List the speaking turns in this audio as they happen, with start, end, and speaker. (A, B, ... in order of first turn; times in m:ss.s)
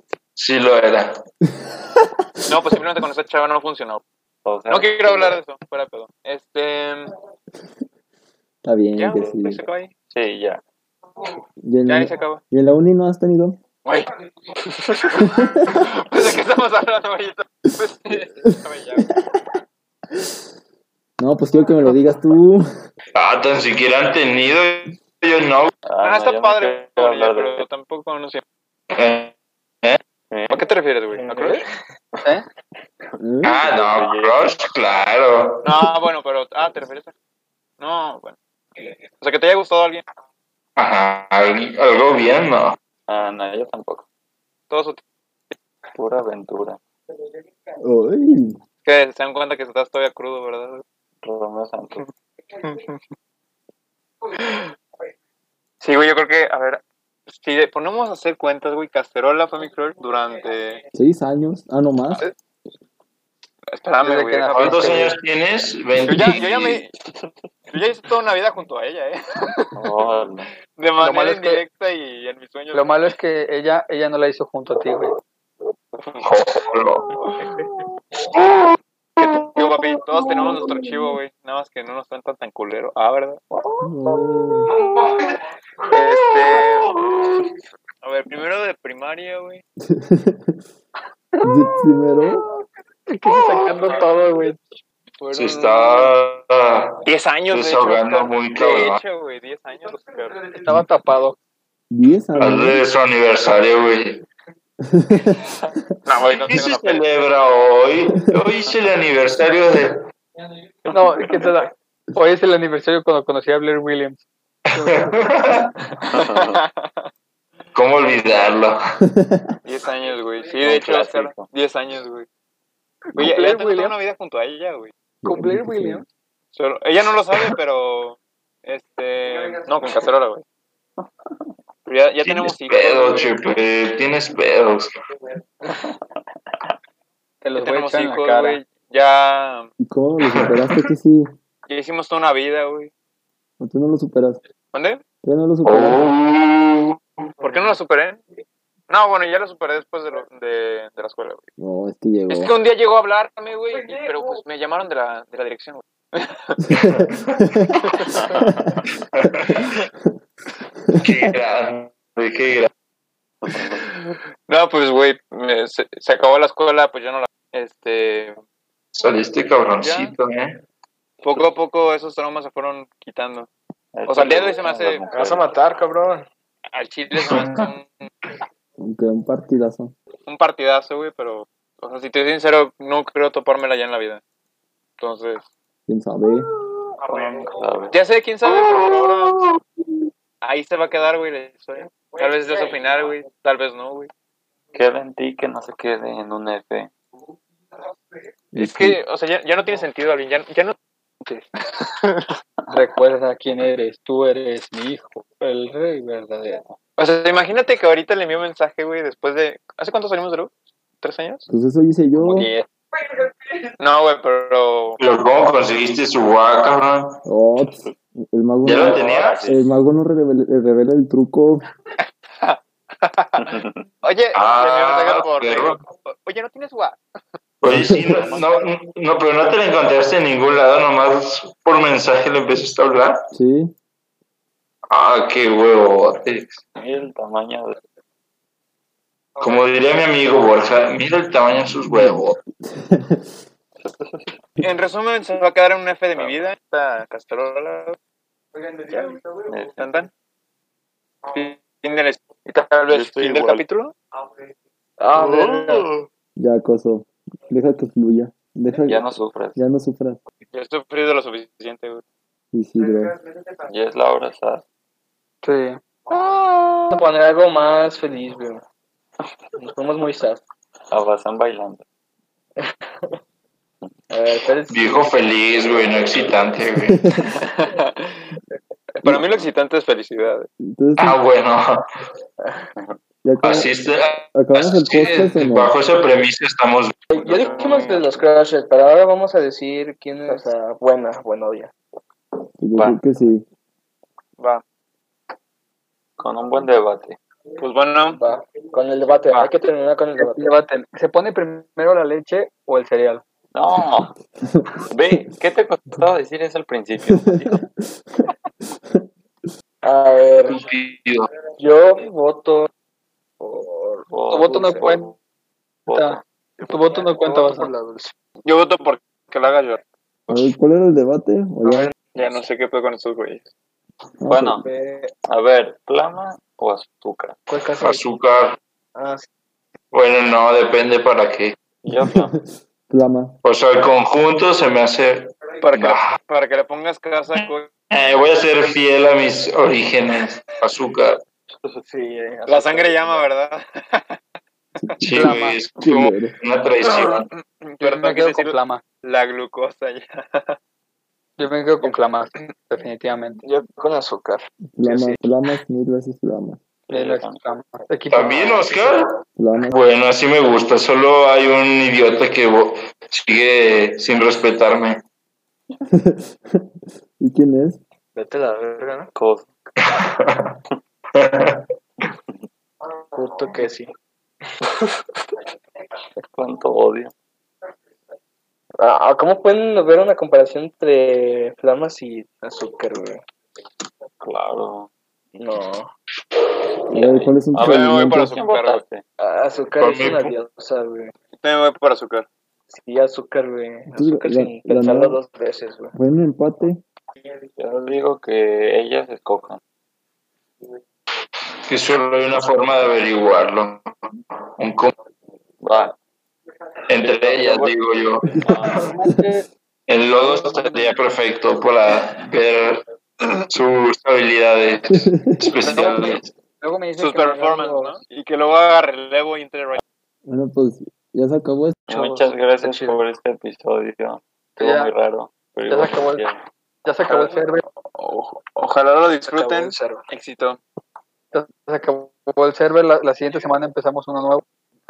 0:00.4-0:01.2 A
0:02.5-0:04.0 B
0:04.4-0:05.4 C
0:04.7-0:07.1 B
0:08.6-0:09.6 D
0:09.0-0:09.9 B
0:10.1-0:10.6 C
0:11.6-0:13.6 D
0:11.9-0:12.4 B
0:14.8-0:19.1 B
0:15.2-0:15.8 D
0:21.2-0:22.7 D
0:23.2-0:25.7 A
0:25.9-0:27.7 C
0:26.0-0:28.4 B
0:28.9-0:30.0 A
0:30.3-0:30.6 C
0:30.5-0:31.6 B
0:31.2-0:31.6 E
0:33.2-0:34.6 C
0:33.2-0:33.7 D
0:33.4-0:35.9 A
0:35.6-0:37.1 B
0:37.8-0:40.0 B
0:40.8-0:42.8 A
0:43.1-0:44.0 C
0:44.7-0:45.0 B
0:46.0-0:46.8 C
0:47.8-0:48.6 D
0:48.8-0:50.8 B
0:51.2-0:52.0 C
0:52.6-0:53.0 B
0:54.3-0:54.7 B
0:55.8-1:00.8 B
1:00.9-1:02.2 D
1:03.7-1:05.1 B
1:04.0-1:05.2 F
1:04.5-1:06.8 A
1:06.0-1:06.9 B
1:07.7-1:09.7 B
1:09.8-1:10.5 C
1:10.8-1:13.0 B
1:11.0-1:11.6 F
1:12.7-1:15.2 F
1:16.2-1:17.2 A
1:18.3-1:21.1 A
1:19.2-1:23.4 B
1:23.8-1:24.7 D
1:25.9-1:26.9 B
1:25.9-1:27.2 A
1:28.0-1:29.6 B
1:29.8-1:30.6 D
1:31.4-1:32.4 D
1:33.1-1:34.6 F
1:35.3-1:39.0 A
1:37.1-1:40.4 B
1:40.5-1:41.4 F
1:41.9-1:42.8 D
1:42.4-1:44.2 A
1:44.8-1:45.4 D
1:46.1-1:47.0 B
1:46.2-1:50.0 A
1:50.9-1:51.5 C
1:50.9-1:55.2 F
1:54.8-1:55.7 A
1:56.1-1:56.6 C
1:56.2-1:57.1 B
1:57.7-1:58.8 A
1:59.0-1:59.6 D
1:59.6-2:02.3 B
2:00.6-2:01.5 C
2:03.1-2:04.0 F
2:03.2-2:04.9 B
2:05.2-2:06.0 D
2:05.3-2:06.0 F
2:06.5-2:10.4 B
2:11.9-2:13.3 B
2:12.2-2:14.9 A
2:17.4-2:18.6 F
2:17.6-2:19.7 B
2:19.8-2:21.3 D
2:20.2-2:20.9 A
2:21.7-2:22.9 B
2:23.6-2:24.4 D
2:24.7-2:25.0 B
2:25.2-2:26.0 D
2:25.6-2:27.0 A
2:27.4-2:28.2 B
2:28.9-2:31.4 B
2:31.6-2:32.5 D
2:32.3-2:36.6 B
2:36.7-2:38.8 D
2:36.8-2:37.4 A
2:38.1-2:38.8 C
2:39.1-2:39.7 A
2:40.9-2:41.3 D
2:41.0-2:42.7 A
2:43.4-2:43.8 C
2:43.9-2:48.4 B
2:49.0-2:50.6 A
2:49.8-2:50.2 B
2:51.2-2:53.5 B
2:53.9-2:55.5 C
2:54.1-2:55.0 B
2:55.1-2:56.3 E
2:56.7-2:58.1 B
2:57.2-2:57.7 A
2:58.8-2:59.9 D
3:00.3-3:04.2 B
3:05.0-3:05.5 B
3:05.9-3:06.5 D
3:07.1-3:08.0 C
3:07.9-3:09.5 B
3:08.5-3:09.3 A
3:10.4-3:14.1 B
3:14.7-3:16.9 C
3:18.6-3:19.0 D
3:18.6-3:20.8 B
3:21.7-3:22.3 B
3:22.7-3:26.6 F
3:27.0-3:31.5 B
3:31.5-3:32.5 D
3:32.2-3:32.7 F
3:33.8-3:35.0 B
3:35.0-3:37.2 A
3:37.2-3:41.7 D
3:38.6-3:39.4 A
3:38.8-3:39.7 C
3:42.4-3:47.0 B
3:43.4-3:43.9 C
3:44.3-3:45.8 A
3:47.6-3:53.2 A
3:47.6-3:48.3 D
3:53.3-3:53.7 D
3:54.9-3:56.6 A
3:56.8-3:57.8 C
3:59.4-4:02.4 A
4:01.8-4:03.4 D
4:03.8-4:04.4 C
4:04.6-4:08.0 B
4:06.2-4:06.4 C
4:08.9-4:10.1 B
4:09.5-4:09.8 C
4:11.3-4:13.9 B
4:12.9-4:13.6 C
4:15.0-4:15.9 E
4:15.1-4:16.0 C
4:16.4-4:20.2 D
4:18.8-4:19.6 C
4:20.5-4:22.0 B
4:22.5-4:23.1 D
4:23.7-4:24.6 C
4:25.4-4:25.8 F
4:26.9-4:28.6 E
4:29.6-4:30.4 E
4:30.9-4:31.8 C
4:32.6-4:33.1 E
4:34.1-4:35.0 E
4:34.7-4:37.2 A
4:37.4-4:38.4 B
4:39.0-4:40.5 B
4:40.6-4:41.2 D
4:41.0-4:41.8 A
4:42.4-4:42.7 E
4:43.2-4:43.7 D
4:43.4-4:47.0 A
4:44.3-4:45.7 D
4:47.1-4:51.7 E
4:47.2-4:48.1 B
4:47.3-4:47.8 C
4:52.6-4:53.4 D
4:52.7-4:53.0 C
4:56.2-4:57.2 C
4:57.6-4:58.2 B
4:58.1-5:00.6 E
5:00.2-5:03.2 F
5:03.5-5:04.2 C
5:04.5-5:05.2 D
5:04.9-5:07.6 C
5:07.1-5:07.8 D
5:09.8-5:10.6 E
5:10.5-5:11.3 A
5:11.6-5:12.7 E
5:13.4-5:14.1 E
5:14.1-5:15.2 C
5:14.3-5:15.1 F
5:15.9-5:16.2 C
5:15.9-5:17.7 F
5:16.6-5:18.1 E
5:18.4-5:19.8 B
5:20.3-5:21.9 D
5:21.6-5:21.9 E
5:22.1-5:23.5 B
5:24.2-5:24.7 D
5:24.3-5:24.7 C
5:24.7-5:25.1 E
5:25.3-5:27.4 C
5:27.5-5:28.0 E
5:27.8-5:28.6 A
5:29.0-5:29.3 E
5:29.9-5:31.6 A
5:31.8-5:32.4 C
5:32.0-5:33.4 D
5:33.4-5:36.2 A
5:35.6-5:37.7 B
5:37.9-5:41.2 A
5:41.8-5:43.3 E
5:42.5-5:44.2 B
5:45.0-5:47.3 A
5:45.1-5:45.6 F
5:45.8-5:46.4 D
5:46.8-5:50.6 B
5:47.8-5:48.8 F
5:51.4-5:53.4 F
5:53.4-5:55.2 E
5:54.7-5:56.6 D
5:56.9-5:57.4 C
5:56.9-5:59.0 F
5:58.1-6:05.0 A
5:59.4-5:59.8 D
6:05.9-6:07.8 D
6:08.2-6:09.1 E
6:09.2-6:09.5 C
6:09.8-6:10.6 A
6:11.2-6:11.6 A
6:13.1-6:13.9 E
6:16.3-6:17.1 C
6:18.8-6:23.2 E
6:24.2-6:24.9 C
6:25.4-6:25.9 E
6:26.9-6:28.4 D
6:27.0-6:29.0 C
6:27.6-6:28.8 B
6:29.2-6:31.2 E
6:29.8-6:30.4 A
6:31.4-6:32.3 B
6:32.7-6:35.9 E
6:33.9-6:35.2 D
6:35.9-6:36.8 D
6:37.6-6:39.6 C
6:41.7-6:43.8 A
6:44.6-6:44.9 A
6:45.6-6:46.0 C
6:46.9-6:48.3 A
6:47.0-6:47.8 C
6:48.3-6:49.2 D
6:48.4-6:49.0 C
6:48.9-6:49.5 F
6:49.9-6:52.8 A
6:50.2-6:50.8 F
6:53.5-6:56.3 A
6:54.9-6:55.4 D
6:55.6-6:56.2 B
6:56.6-6:58.0 F
6:57.0-6:59.8 B
7:00.3-7:01.8 D
7:01.9-7:06.4 C
7:01.9-7:03.0 E
7:04.6-7:04.9 F
7:05.7-7:06.2 F
7:06.8-7:07.6 F
7:08.0-7:10.6 B
7:09.2-7:10.0 E
7:11.3-7:14.4 F